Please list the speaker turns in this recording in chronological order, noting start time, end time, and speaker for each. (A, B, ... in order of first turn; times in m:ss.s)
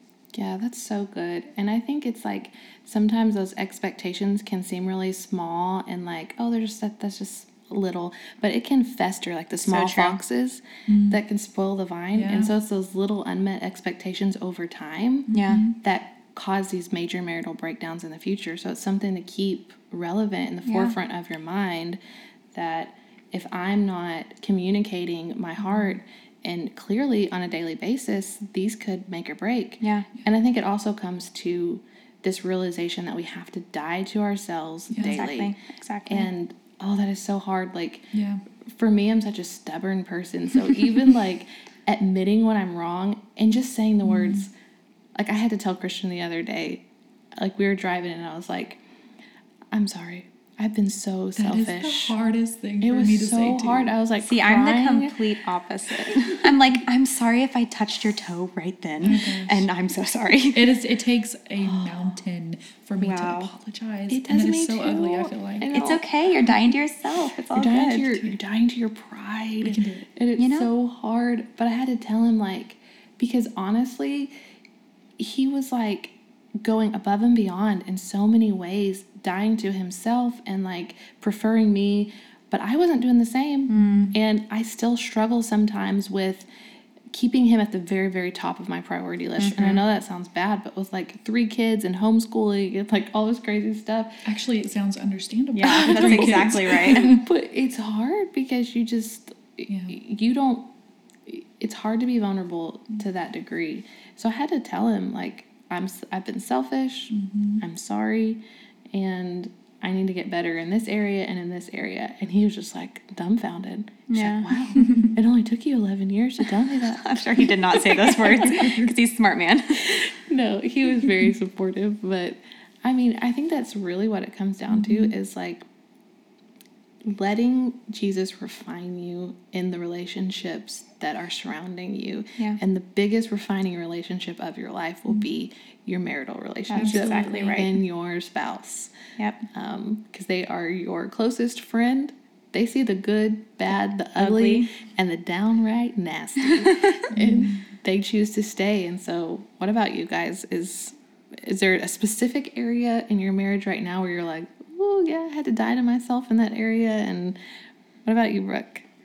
0:00.3-0:22.0 A
0:09.6-0:10.2 B
0:10.9-0:11.2 C
0:12.1-0:12.5 C
0:15.3-0:15.8 C
0:15.3-0:15.6 B
0:20.6-0:21.0 B
0:22.5-0:35.5 A
0:25.6-0:26.0 C
0:29.8-0:30.1 B
0:34.9-0:35.2 C
0:35.0-0:36.3 B
0:36.1-0:38.1 A
0:38.1-0:38.4 C
0:38.6-0:44.5 A
0:44.0-0:44.4 C
0:45.2-0:46.8 A
0:47.4-0:48.8 A
0:49.7-0:52.1 A
0:51.4-0:53.9 C
0:52.8-0:55.2 A
0:54.2-1:00.7 B
0:59.0-0:59.7 C
1:00.5-1:05.7 C
1:01.6-1:02.1 A
1:03.0-1:03.5 B
1:04.1-1:06.5 A
1:05.7-1:08.0 B
1:07.5-1:14.3 A
1:09.6-1:10.1 C
1:10.4-1:10.7 B
1:15.2-1:26.5 A
1:23.7-1:24.1 B
1:23.7-1:24.2 C
1:27.1-1:34.2 A
1:29.4-1:29.8 C
1:29.5-1:29.8 B
1:34.2-1:37.2 C
1:35.5-1:37.1 B
1:35.6-1:40.7 A
1:39.7-1:40.0 C
1:41.2-1:58.7 A
1:47.1-1:47.6 C
1:54.1-1:55.1 B
1:54.7-1:55.2 C
1:56.8-2:00.1 B
1:58.3-1:58.9 C
1:59.8-2:05.6 A
2:04.7-2:05.1 C
2:07.0-2:18.9 A
2:16.7-2:17.7 B
2:16.7-2:17.7 C
2:19.2-2:19.4 B
2:19.5-2:37.4 A
2:24.2-2:24.7 B
2:26.6-2:27.0 B
2:27.1-2:27.7 C
2:38.0-2:38.9 A